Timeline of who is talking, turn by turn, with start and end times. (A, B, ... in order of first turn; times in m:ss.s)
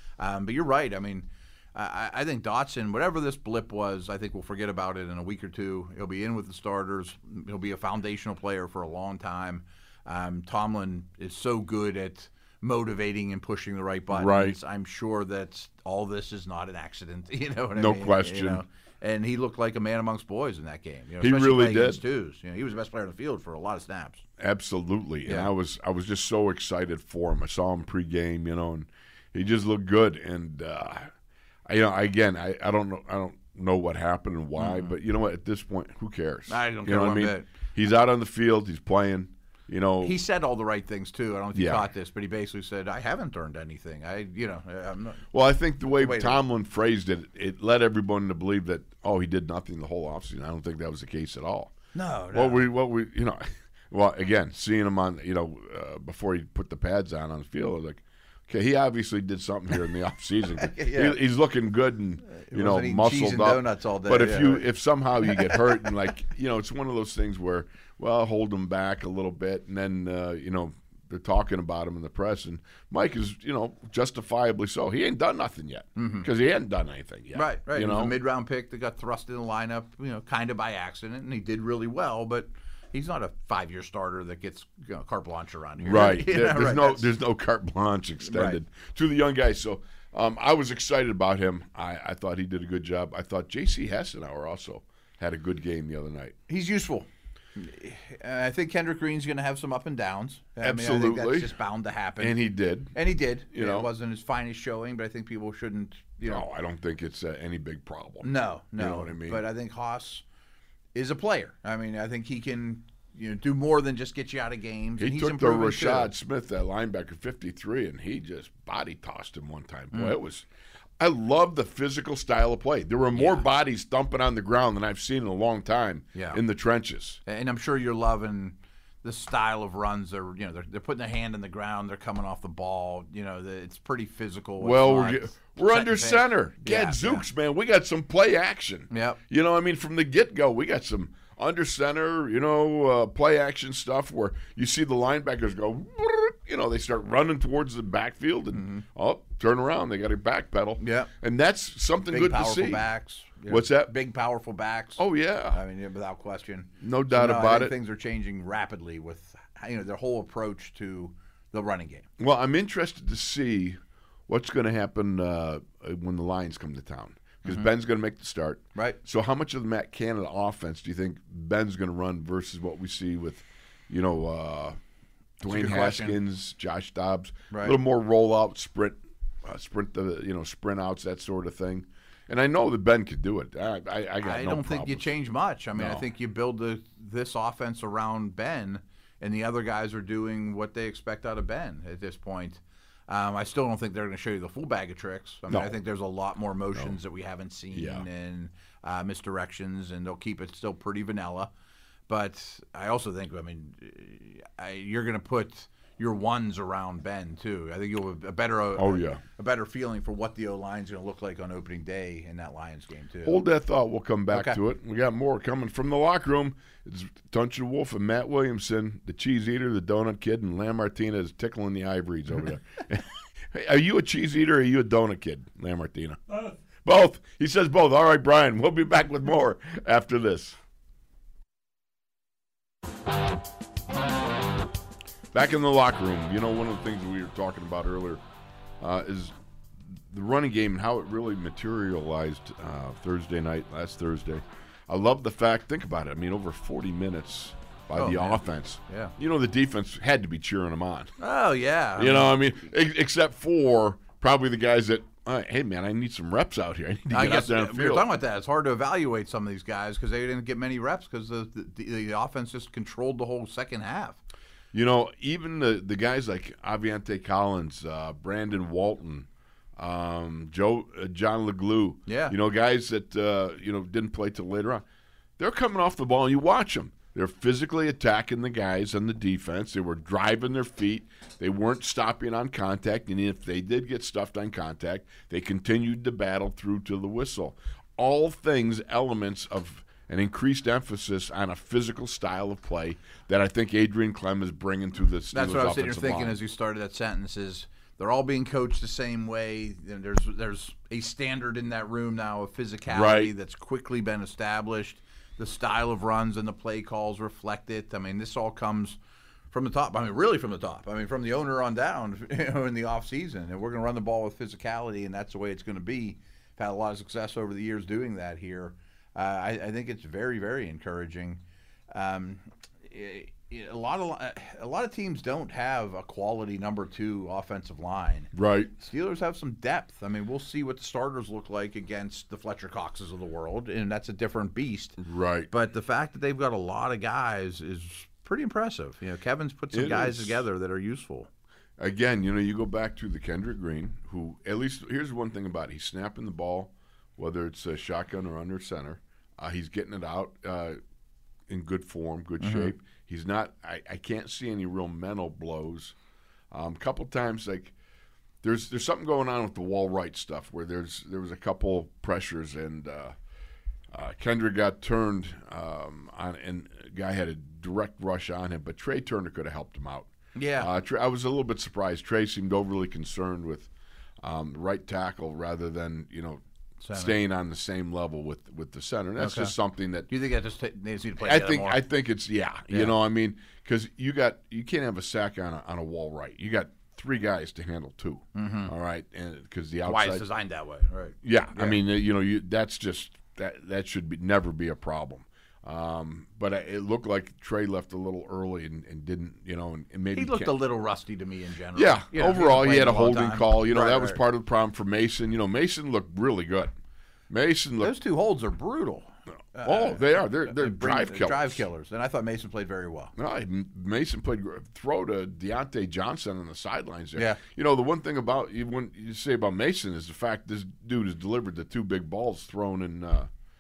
0:00.2-0:24.2 A
0:14.1-0:14.6 B
0:17.7-0:18.6 B
0:21.2-0:22.0 B
0:24.4-0:31.1 B
0:31.6-0:40.2 B
0:34.6-0:34.9 A
0:36.5-0:37.5 A
0:40.0-0:45.3 A
0:41.5-0:41.9 B
0:45.3-0:51.7 B
0:45.8-0:46.4 A
0:51.9-0:52.6 A
0:52.3-1:18.1 B
1:00.6-1:01.2 A
1:02.3-1:04.7 A
1:05.2-1:05.9 A
1:16.0-1:16.3 A
1:17.3-1:27.1 A
1:25.8-1:36.3 B
1:28.2-1:28.6 A
1:36.5-1:42.4 A
1:40.6-1:41.5 B
1:42.2-1:43.0 B
1:42.9-1:46.4 A
1:43.5-1:43.9 B
1:46.2-1:49.4 B
1:48.2-1:50.2 A
1:50.9-1:56.1 A
1:55.0-2:00.4 B
1:59.9-2:00.2 A
2:01.0-2:07.2 B
2:03.1-2:03.4 A
2:06.1-2:06.4 A
2:07.2-2:17.2 A
2:14.6-2:32.8 B
2:18.9-2:19.2 A
2:28.5-2:28.8 A
2:30.8-2:31.1 A
2:32.1-2:42.1 A
2:33.5-2:33.9 B
2:35.0-2:35.6 B
2:36.8-2:37.7 B
2:42.2-2:54.8 B
2:55.4-3:05.1 B
2:55.4-2:56.2 A
2:57.5-2:57.8 A
3:04.2-3:21.5 A
3:05.8-3:06.0 B
3:15.5-3:15.8 B
3:17.7-3:18.0 B
3:22.1-3:33.4 A
3:28.7-3:29.2 B
3:33.2-3:46.2 B
3:34.3-3:34.6 A
3:46.7-3:50.6 B
3:55.3-3:58.2 B
3:58.8-4:11.1 B
4:08.0-4:09.1 A
4:11.2-4:12.3 A
4:12.0-4:18.1 B
4:17.1-4:24.2 A
4:24.7-4:34.8 B
4:32.1-4:32.3 A
4:35.4-4:56.4 B
4:55.3-5:09.0 A
5:02.9-5:03.3 B
5:09.5-5:21.4 A
5:21.9-5:41.3 A
5:28.3-5:28.7 B
5:35.0-5:35.5 B
5:39.7-5:40.4 B
5:41.8-5:50.8 B
5:51.5-5:55.9 B
5:52.4-5:52.7 A
5:56.5-5:57.7 B
5:58.4-6:03.1 B
6:03.9-6:13.7 B
6:10.3-6:10.7 A
6:14.2-6:16.4 B
6:16.8-6:17.2 A
6:16.9-6:20.1 B
6:19.2-6:19.5 A
6:20.1-6:21.8 A
6:21.2-6:30.2 B
6:28.3-6:28.7 A
6:29.8-6:31.8 A
6:31.2-6:40.5 B
6:40.1-6:44.2 A
6:41.7-6:46.7 B
6:47.3-6:47.9 B
6:47.8-6:53.1 A
6:49.6-6:51.6 B
6:53.2-7:03.3 B